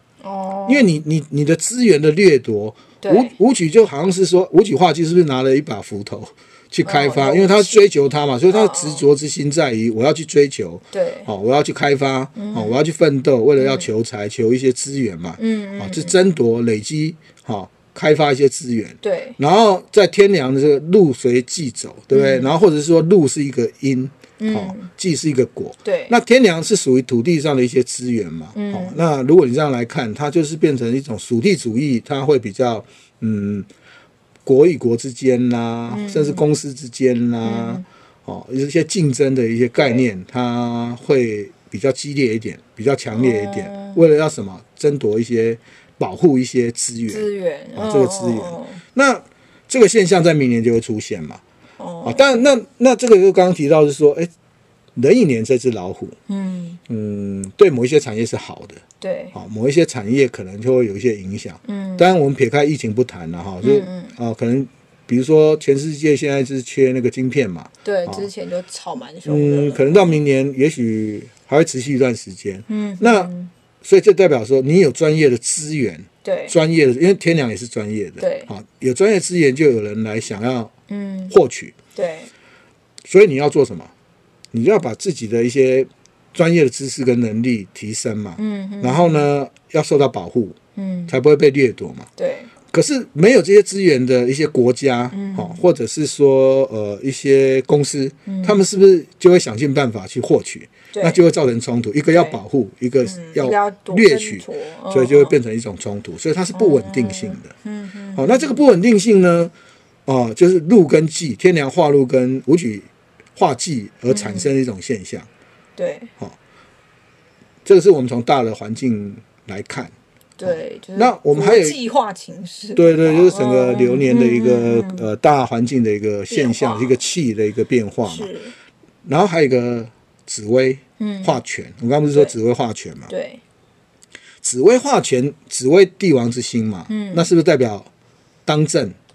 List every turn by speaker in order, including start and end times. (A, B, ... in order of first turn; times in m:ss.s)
0:00.2-0:01.0 A
0:00.7-0:33.7 B
0:03.0-0:03.3 A
0:06.8-0:07.8 A
0:08.5-0:09.0 A
0:10.9-0:11.3 A
0:12.3-0:12.8 A
0:13.6-0:13.9 A
0:15.4-0:16.2 A
0:19.0-0:19.4 A
0:22.1-0:22.5 A
0:24.4-0:24.9 A
0:25.8-0:26.1 A
0:28.5-0:29.0 A
0:34.4-0:51.4 B
0:35.9-0:36.4 A
0:37.4-0:37.8 A
0:39.8-0:40.0 A
0:43.1-0:44.0 A
0:47.1-0:48.8 A
0:51.8-0:52.4 A
0:52.0-0:54.3 B
0:55.0-0:56.2 B
0:56.3-0:56.8 A
0:56.9-0:58.8 B
0:59.0-0:59.3 A
0:59.3-1:08.3 B
1:01.6-1:02.1 A
1:03.6-1:04.1 A
1:07.8-1:10.2 A
1:09.2-1:13.3 B
1:12.7-1:13.5 A
1:13.8-1:20.7 B
1:16.2-1:16.6 A
1:18.2-1:18.5 A
1:20.9-1:21.3 A
1:21.3-1:21.7 B
1:21.9-1:22.3 A
1:23.0-1:23.9 B
1:24.5-1:30.6 B
1:28.4-1:29.3 A
1:30.8-1:31.1 A
1:31.1-1:32.1 B
1:32.2-1:32.5 A
1:32.7-1:47.5 B
1:35.1-1:35.6 A
1:38.2-1:38.6 A
1:40.9-1:41.2 A
1:42.1-1:42.4 A
1:43.0-1:45.4 A
1:46.5-1:48.6 A
1:48.1-1:49.5 B
1:50.0-1:55.3 B
1:54.1-1:54.5 A
1:55.8-1:56.1 A
1:57.6-1:59.9 B
2:00.4-2:05.1 A
2:00.5-2:01.8 B
2:02.8-2:08.3 B
2:06.3-2:07.0 A
2:08.0-2:08.5 A
2:09.0-2:13.1 B
2:11.0-2:11.4 A
2:13.1-2:13.4 A
2:14.4-2:17.9 B
2:16.9-2:17.3 A
2:18.4-2:19.0 B